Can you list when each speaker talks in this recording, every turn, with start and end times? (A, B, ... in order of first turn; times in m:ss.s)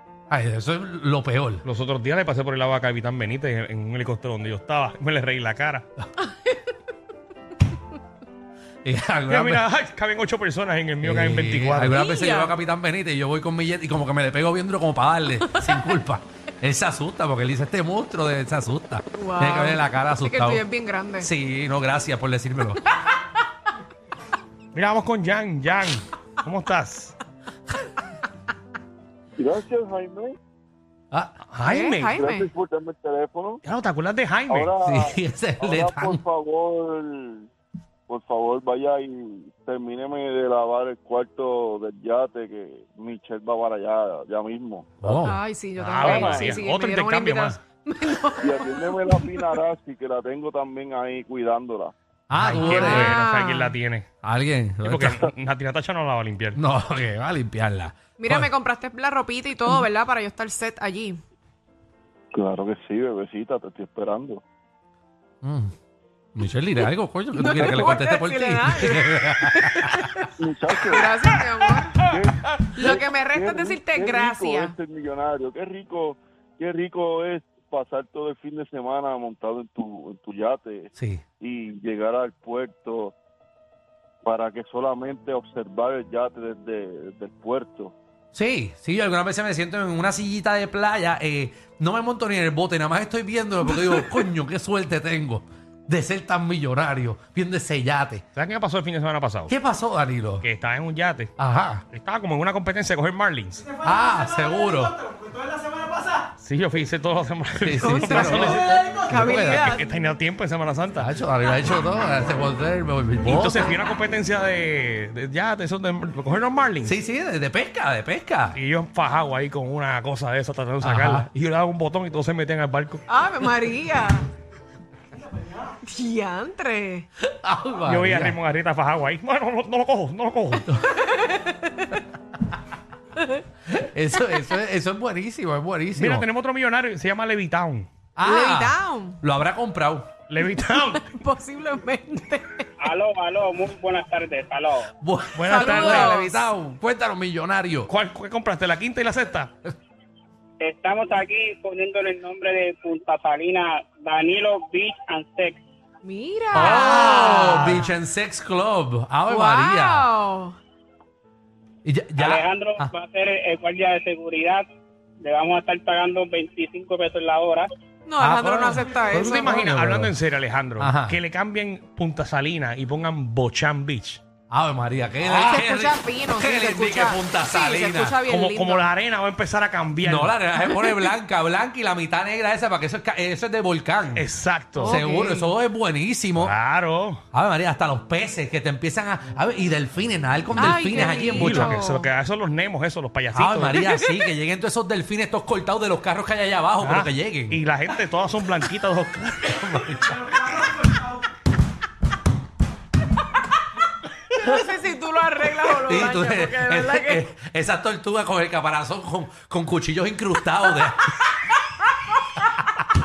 0:00.3-0:01.6 A
0:01.6-0:05.9 B
0:06.3-0:06.5 C
0:08.8-0:09.6 A
0:09.3-0:12.0 B
0:11.0-0:20.6 A
0:11.9-0:12.6 C
0:19.1-0:21.3 C
0:21.2-0:22.8 A
0:24.7-0:27.2 B
0:29.4-0:30.3 D
0:31.5-0:32.1 B
0:31.6-0:32.5 C
0:32.1-0:33.6 D
0:33.6-0:34.7 B
0:34.5-0:37.5 D
0:34.8-0:36.2 A
0:38.1-0:44.9 D
0:45.0-0:45.4 A
0:45.0-0:49.3 C
0:45.8-0:47.6 B
0:46.0-0:46.6 D
0:48.4-0:51.9 D
0:52.3-0:53.2 A
0:52.3-0:54.1 B
0:52.6-0:53.7 C
0:54.2-0:55.3 A
0:54.8-0:56.6 B
0:56.5-0:58.5 A
0:58.2-1:01.2 C
1:02.3-1:04.4 D
1:05.4-1:05.7 A
1:06.3-1:10.0 A
1:07.3-1:10.3 C
1:07.5-1:08.1 D
1:10.4-1:11.2 D
1:10.9-1:12.0 C
1:12.0-1:23.1 D
1:12.7-1:14.8 C
1:21.0-1:21.2 A
1:24.2-1:27.9 D
1:28.3-1:38.2 A
1:38.4-1:39.5 B
1:39.5-1:40.4 A
1:40.4-1:41.3 B
1:41.4-1:41.8 A
1:41.9-1:43.7 B
1:43.8-1:45.1 A
1:46.4-1:51.1 B
1:47.6-1:49.8 A
1:47.8-1:49.8 C
1:51.0-1:53.8 A
1:53.2-1:57.0 B
1:56.8-1:58.6 A
1:58.5-2:03.1 B
2:00.8-2:01.3 A
2:03.1-2:04.2 C
2:05.7-2:07.0 C
2:07.2-2:08.4 A
2:07.8-2:10.7 B
2:10.9-2:12.0 C
2:13.7-2:16.3 A
2:15.9-2:17.9 B
2:18.2-2:20.1 A
2:18.2-2:19.2 C
2:20.3-2:21.1 B
2:20.7-2:22.7 C
2:22.8-2:24.9 E
2:25.0-2:27.9 A
2:25.3-2:26.2 B
2:25.5-2:26.4 C
2:27.9-2:29.5 B
2:30.6-2:35.6 E
2:36.0-2:37.9 C
2:36.5-2:40.1 A
2:36.6-2:37.8 B
2:39.3-2:40.5 C
2:41.8-2:42.9 A
2:42.2-2:44.6 E
2:45.2-2:47.7 E
2:48.0-2:49.7 C
2:48.2-2:50.1 A
2:49.0-2:54.2 B
2:50.8-2:51.2 A
2:54.5-2:58.3 A
2:55.2-2:55.6 B
2:55.4-2:58.9 C
2:58.3-3:00.4 B
3:00.0-3:04.3 A
3:04.1-3:05.0 B
3:04.8-3:05.5 C
3:04.8-3:06.6 A
3:06.4-3:07.2 B
3:07.3-3:11.8 A
3:10.6-3:12.1 C
3:10.6-3:13.8 B
3:13.3-3:17.6 A
3:16.8-3:20.0 B
3:19.7-3:20.9 A
3:24.3-3:27.2 C
3:25.8-3:31.2 A